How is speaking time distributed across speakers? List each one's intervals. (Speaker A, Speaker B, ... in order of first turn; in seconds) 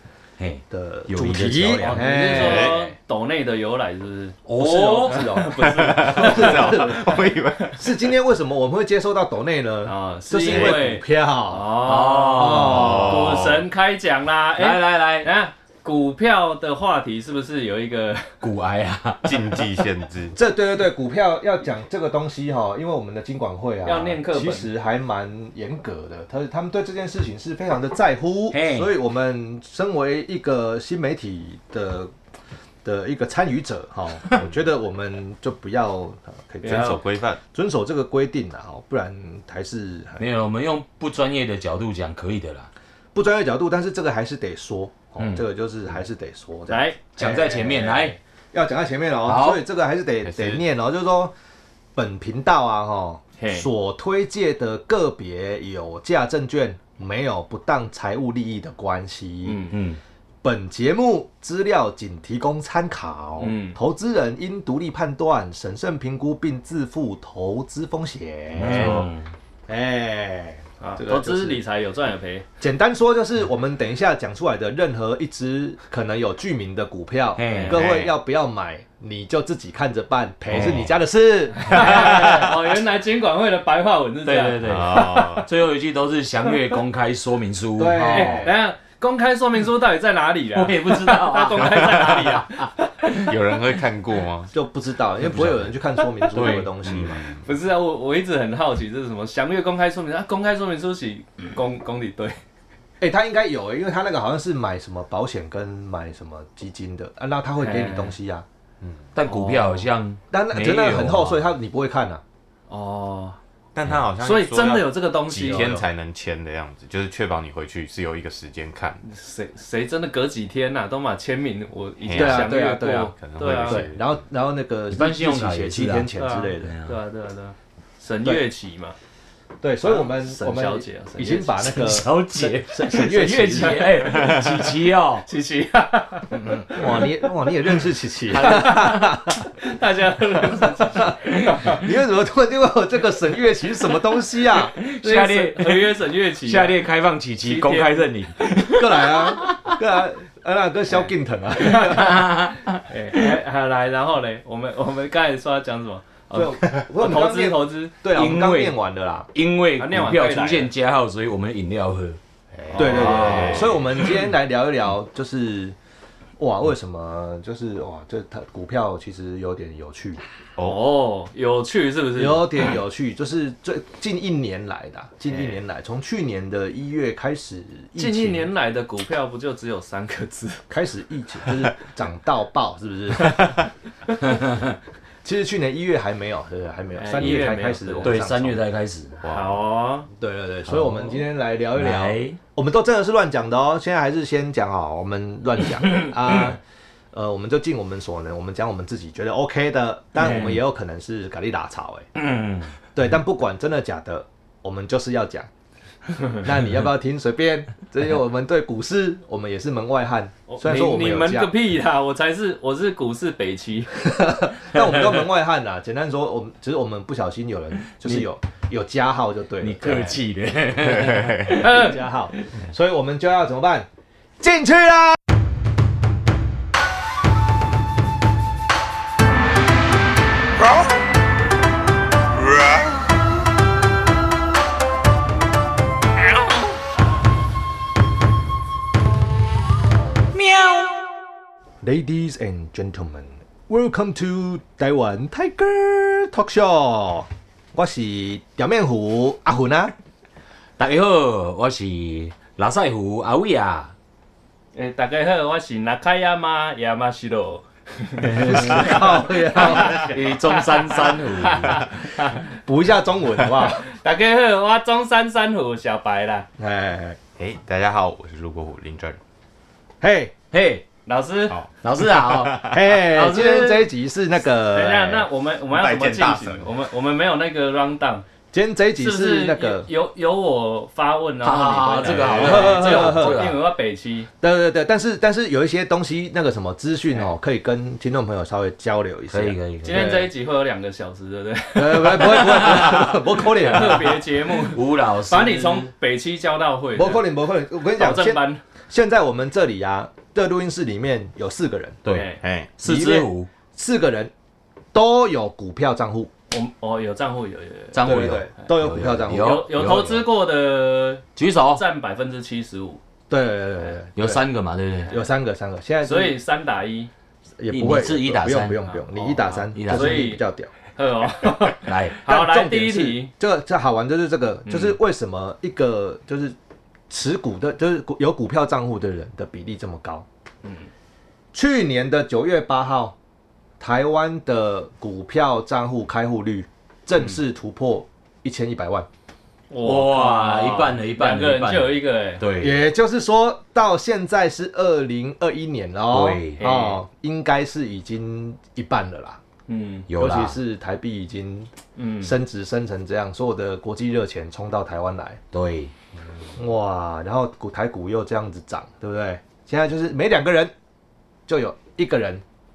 Speaker A: 0.4-2.7, 4.5-5.3, 11.8-13.1, 14.6-15.3, 18.4-19.7, 28.5-28.9, 40.2-42.7, 45.2-45.4, 47.1-48.2, 49.2-49.6, 59.7-60.0, 68.5-69.3, 77.3-77.9, 80.6-80.8, 81.7-82.4, 84.2-88.5, 90.5-92.7, 95.2-96.7, 109.1-111.5, 124.9-127.0, 131.6-135.2, 136.3-136.8, 138.3-139.0, 144.8-149.8, 151.7-153.3, 158.1-158.8, 159.3-162.2, 162.8-163.7, 184.3-184.7, 187.2-187.5, 188.0-189.2, 190.7-191.2, 191.7-192.4, 200.2-200.6, 202.1-202.7, 219.6-221.9, 240.5-240.8, 250.8-253.9, 258.2-261.9, 270.5-270.8, 271.8-272.7, 281.4-283.6, 289.3-290.1, 294.5-295.9, 302.0-303.5, 307.9-310.2, 311.4-311.8, 314.1-315.2, 317.7-318.9, 319.7-320.4, 321.8-322.2, 339.8-342.8, 346.1-346.6, 350.1-350.6, 355.5-355.9
Speaker B: 0.7-2.7, 4.6-7.0, 7.8-13.4, 20.3-32.1, 32.8-40.2, 43.1-51.3, 51.9-59.6, 60.4-69.1, 69.7-71.6, 72.6-82.3, 87.8-88.5, 94.5-97.3, 103.0-108.4, 110.3-112.2, 122.1-123.1, 123.6-126.7, 129.6-133.9, 136.7-139.5, 140.6-144.7, 148.7-152.3, 156.3-159.3, 162.7-165.8, 166.4-170.2, 172.2-178.5, 180.7-183.6, 185.2-188.6, 190.2-196.6, 197.1-202.1, 202.9-205.5, 206.4-211.5, 214.0-220.2, 221.5-223.9, 224.4-225.2, 241.8-249.9, 258.4-260.1, 262.6-263.9, 266.6-267.2, 270.0-270.3, 272.7-275.3, 278.5-279.9, 282.2-283.5, 284.4-290.3, 291.7-294.2, 296.9-302.0, 302.8-304.3, 304.9-306.3, 308.0-309.8, 313.3-314.4, 315.1-316.4, 317.6-320.7, 322.2-326.5, 327.1-330.2, 331.5-333.1, 333.8-339.1, 342.6-349.4, 350.1-355.4, 356.6-360.7, 361.5-362.4
Speaker C: 1.8-7.0, 9.8-18.3, 23.8-24.7, 36.6-37.0, 46.7-48.1, 53.4-53.7, 59.4-59.7, 63.4-63.8, 68.7-69.0, 70.8-72.5, 77.5-77.8, 81.6-85.5, 86.5-86.8, 88.0-93.3, 97.4-102.4, 107.6-108.1, 109.2-109.9, 112.7-113.4, 114.2-115.8, 119.0-123.8, 126.2-128.9, 129.8-131.6, 134.2-134.4, 135.2-136.8, 138.3-141.8, 145.0-146.8, 147.4-148.1, 151.6-157.9, 159.8-160.7, 162.7-163.7, 170.6-172.5, 175.3-175.5, 178.0-180.6, 187.0-188.2, 189.3-190.1, 210.5-214.1, 221.5-222.0, 254.7-262.4, 263.6-266.5, 271.1-271.6, 272.9-273.9, 274.7-278.2, 279.0-284.3, 289.8-297.2, 298.0-298.6, 302.1-302.4, 306.5-308.3, 309.3-313.0, 316.0-317.1, 319.1-320.4, 320.9-323.3, 324.7-324.9, 330.6-330.9, 339.7-342.4, 346.6-347.0, 349.7-350.1, 351.9-352.3
Speaker D: 2.3-2.9, 5.6-7.8, 10.5-10.8, 12.7-13.7, 19.2-20.3, 36.6-37.4, 50.2-50.6, 77.7-78.1, 80.5-80.9, 84.6-85.5, 93.1-94.5, 96.8-97.4, 113.7-119.0, 122.0-124.2, 134.2-134.5, 162.6-163.8, 170.6-170.8, 189.2-189.6, 220.8-221.6, 267.4-269.2, 271.5-272.8, 275.7-276.7, 302.4-302.7